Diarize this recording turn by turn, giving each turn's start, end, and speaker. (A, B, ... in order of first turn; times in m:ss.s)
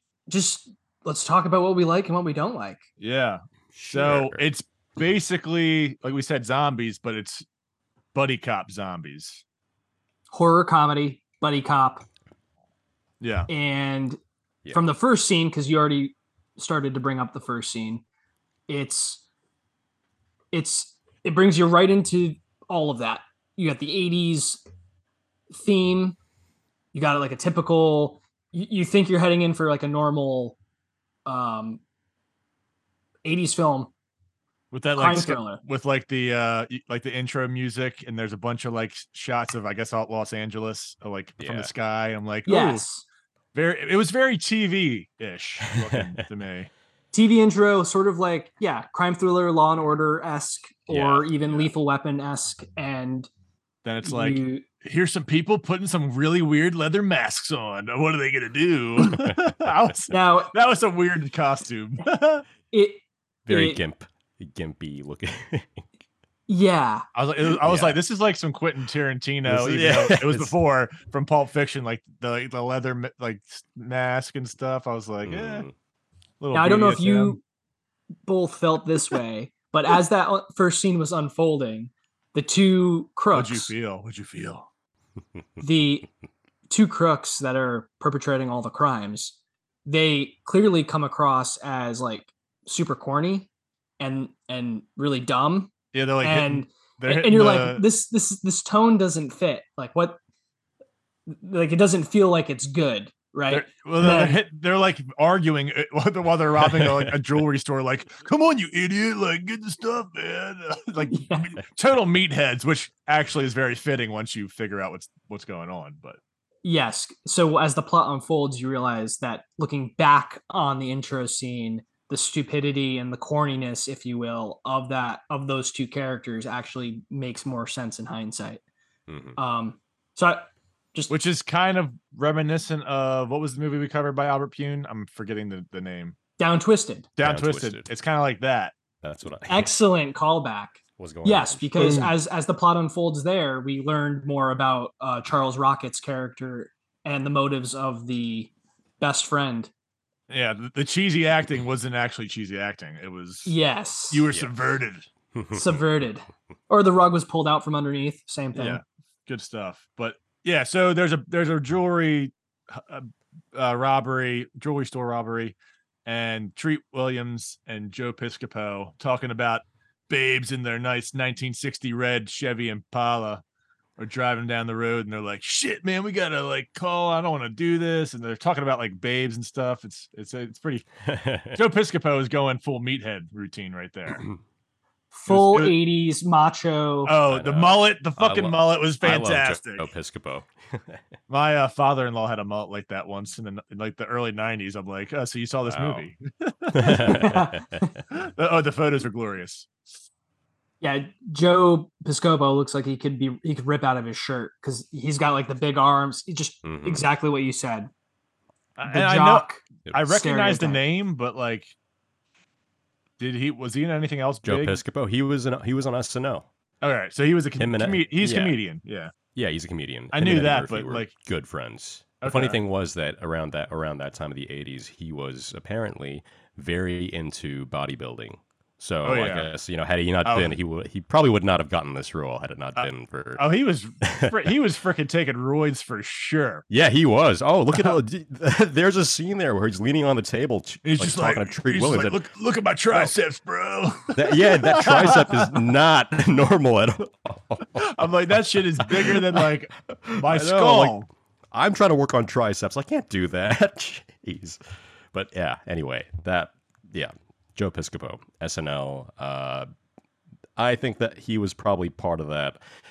0:00.3-0:02.8 A
0:03.0-0:07.4 B
0:03.7-0:04.4 C
0:08.1-0:09.4 B
0:10.3-0:12.0 A
0:13.2-0:13.5 B
0:13.5-0:14.2 A
0:14.7-0:18.0 A
0:18.7-0:19.2 A
0:20.5-0:24.6 A
0:25.5-0:26.2 A
0:26.9-0:30.6 A
0:31.3-0:31.8 A
0:33.2-0:33.9 A
0:34.7-0:42.8 B
0:35.0-0:35.6 A
0:41.4-0:41.7 C
0:42.5-0:43.0 A
0:43.5-0:46.7 B
0:45.7-0:46.1 C
0:47.1-0:53.3 A
0:50.9-0:51.7 C
0:53.8-1:02.4 B
0:54.0-0:54.6 A
1:00.1-1:00.5 A
1:02.7-1:03.8 A
1:03.5-1:05.8 C
1:06.5-1:07.1 A
1:07.1-1:15.7 B
1:07.6-1:08.0 C
1:09.5-1:10.5 C
1:15.2-1:15.7 C
1:16.4-1:17.4 B
1:16.5-1:17.4 A
1:18.3-1:23.7 A
1:23.3-1:24.7 B
1:25.6-1:26.1 A
1:26.7-1:33.5 A
1:34.0-1:40.2 A
1:35.9-1:37.9 B
1:41.3-1:44.4 A
1:43.5-1:56.2 B
1:51.1-1:51.6 A
1:56.6-2:08.6 A
2:09.1-2:09.4 C
2:09.4-2:11.1 A
2:11.1-2:16.2 B
2:16.4-2:17.1 A
2:17.2-2:18.8 B
2:17.2-2:17.9 C
2:19.0-2:19.7 C
2:19.5-2:29.7 A
2:21.0-2:21.7 C
2:21.8-2:22.1 B
2:30.3-2:33.6 B
2:33.5-2:34.3 A
2:34.1-2:35.1 B
2:35.4-2:35.9 C
2:35.5-2:38.8 A
2:38.5-2:53.4 B
2:54.0-3:00.8 B
3:01.1-3:01.6 C
3:01.5-3:04.2 B
3:05.1-3:07.2 A
3:05.3-3:05.8 B
3:07.0-3:09.8 B
3:07.3-3:11.0 C
3:11.3-3:17.3 B
3:15.7-3:16.1 C
3:16.7-3:17.6 C
3:16.8-3:17.9 A
3:18.1-3:19.7 B
3:20.8-3:27.9 A
3:26.6-3:27.1 C
3:28.8-3:31.8 B
3:28.9-3:30.8 A
3:33.2-3:34.8 B
3:34.4-3:36.5 C
3:36.8-3:39.2 B
3:37.6-3:38.6 C
3:39.3-3:53.4 C
3:40.1-3:41.1 B
3:42.2-3:42.6 B
3:49.0-3:49.5 B
3:50.2-3:50.6 B
3:52.8-3:56.7 B
3:54.0-3:54.5 C
3:56.7-4:02.2 C
3:57.7-3:58.0 B
4:00.8-4:05.5 B
4:04.2-4:08.0 C
4:07.8-4:11.1 B
4:08.9-4:09.4 C
4:09.9-4:11.0 C
4:11.5-4:14.6 C
4:15.1-4:19.7 C
4:20.6-4:22.6 C